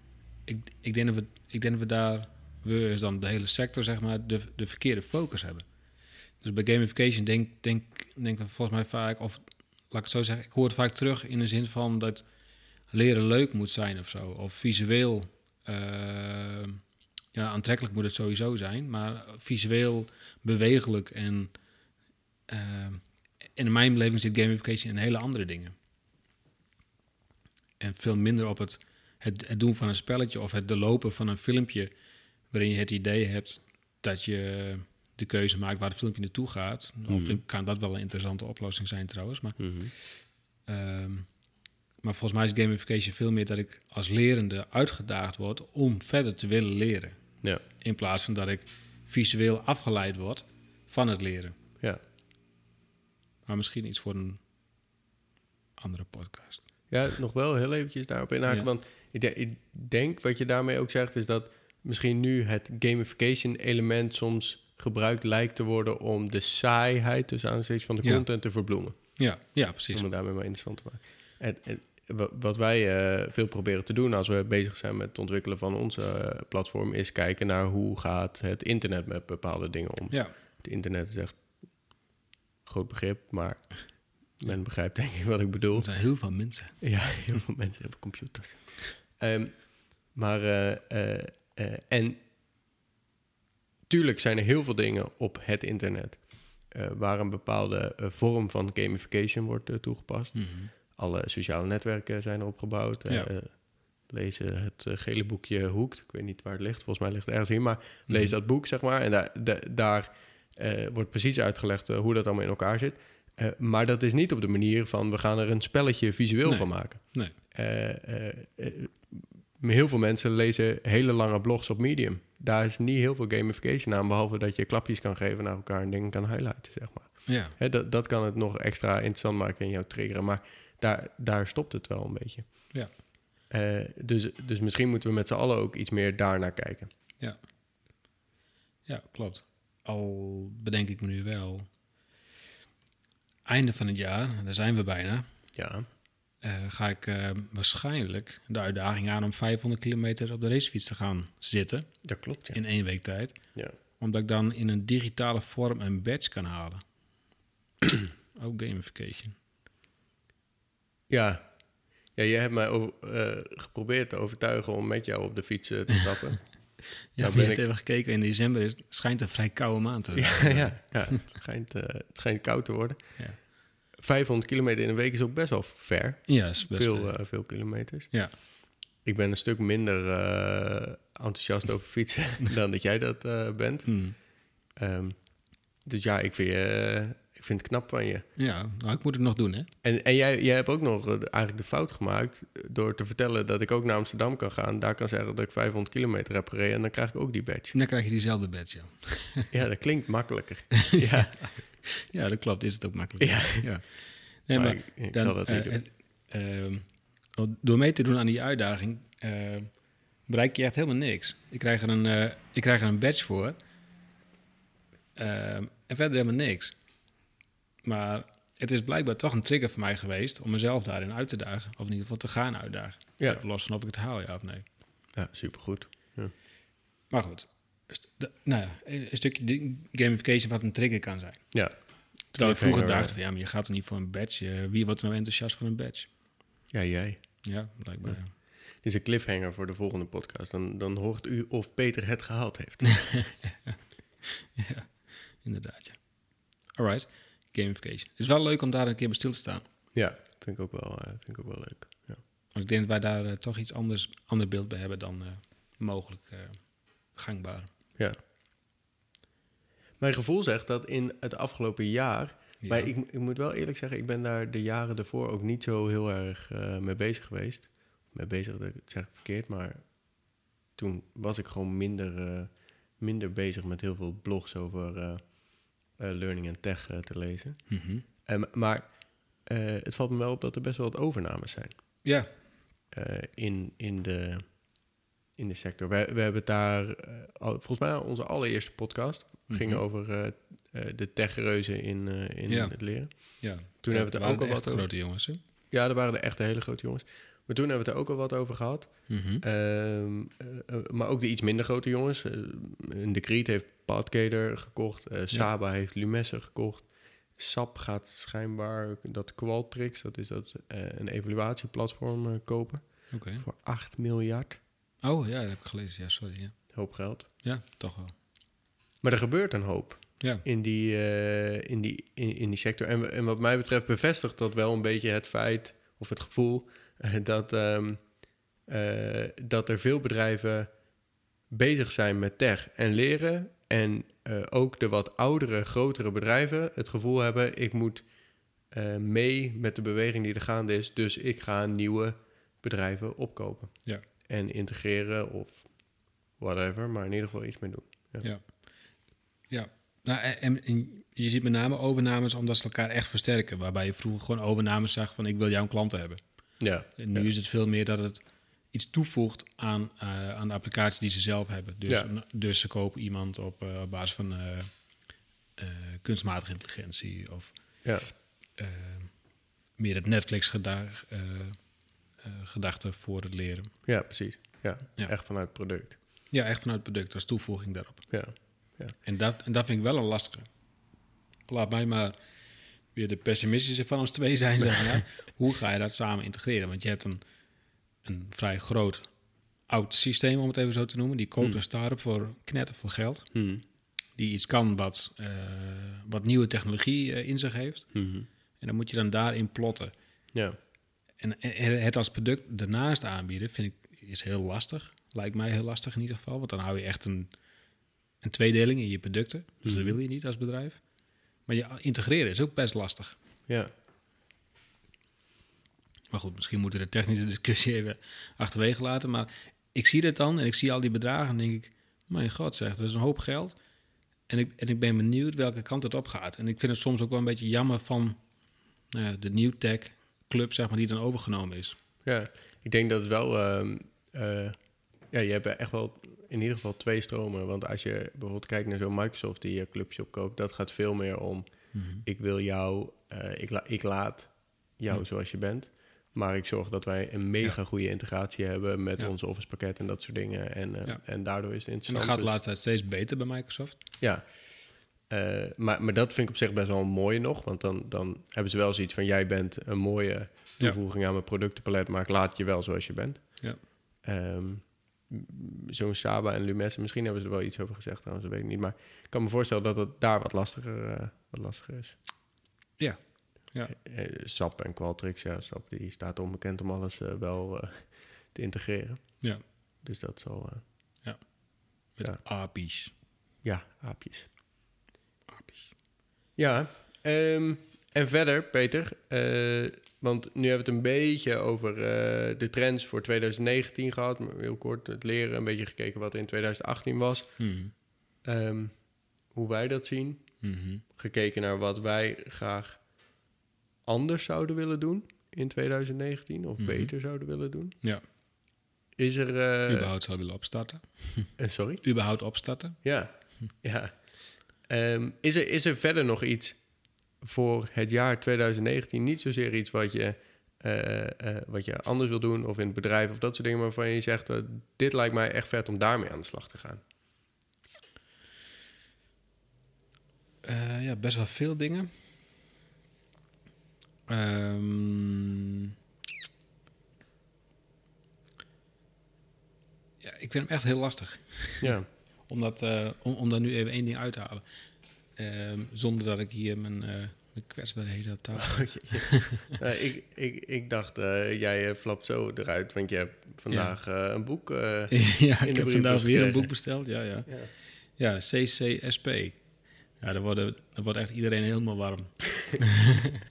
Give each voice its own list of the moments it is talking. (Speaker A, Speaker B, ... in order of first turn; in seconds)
Speaker A: 0.5-5.7, 6.4-12.3, 12.9-16.8, 17.3-21.5, 22.5-25.8, 27.8-31.9, 32.5-39.7, 40.6-41.3, 42.0-51.5, 53.5-54.4, 55.8-56.6, 69.0-70.0, 85.8-86.8, 100.3-100.7, 108.1-108.3, 116.5-117.3, 127.3-127.6, 138.9-141.7, 143.5-145.3, 146.4-156.8, 158.3-159.4, 167.2-171.1, 176.3-178.3, 183.9-184.2, 188.4-189.7, 197.7-199.5, 200.9-213.6, 215.2-216.8, 217.8-224.7, 227.1-236.2, 237.4-238.4, 243.0-249.7, 252.6-257.7, 262.6-262.9, 277.7-278.0, 282.0-282.3, 289.5-289.8, 292.5-295.4, 299.1-299.4, 313.1-313.4, 315.0-316.8, 317.4-318.1, 320.2-320.4, 348.2-348.6, 349.5-373.8, 376.3-380.5, 381.5-382.1, 382.9-387.2, 388.0-393.4, 394.1-397.9, 398.6-399.9, 401.2-407.3, 408.2-410.8, 411.5-413.2, 416.1-423.6, 424.3-428.2, 428.9-431.8, 441.7-442.0, 451.9-453.8, 472.8-473.7, 481.0-482.9, 485.3-485.7, 497.4-497.7, 500.4-500.8, 506.6-506.9, 509.7-513.5, 530.4-531.9, 534.1-535.7, 540.0-541.8, 542.3-544.4, 545.2-549.5, 553.5-553.8, 554.9-563.1
Speaker B: 37.1-37.4, 39.6-39.9, 56.9-69.3, 69.9-81.5, 82.7-86.0, 86.8-92.2, 93.9-132.8, 133.5-136.9, 145.6-145.9, 152.0-152.6, 161.1-161.6, 162.1-167.7, 170.2-188.3, 189.8-197.8, 199.5-201.6, 203.2-205.8, 225.2-226.3, 231.5-233.2, 236.7-237.5, 238.0-243.2, 249.9-252.2, 260.0-282.0, 282.9-294.9, 295.7-314.6, 316.7-317.3, 319.0-330.7, 331.5-338.1, 338.7-348.3, 356.6-357.3, 367.8-368.1, 373.9-376.0, 378.1-378.9, 393.3-393.6, 397.9-398.3, 409.6-410.0, 432.1-452.3, 454.0-472.0, 473.7-480.7, 483.4-484.3, 486.4-497.5, 498.2-500.4, 500.9-502.9, 503.8-507.8, 509.0-509.9, 511.4-511.9, 512.8-526.8, 541.6-541.9, 548.4-556.6, 557.3-557.5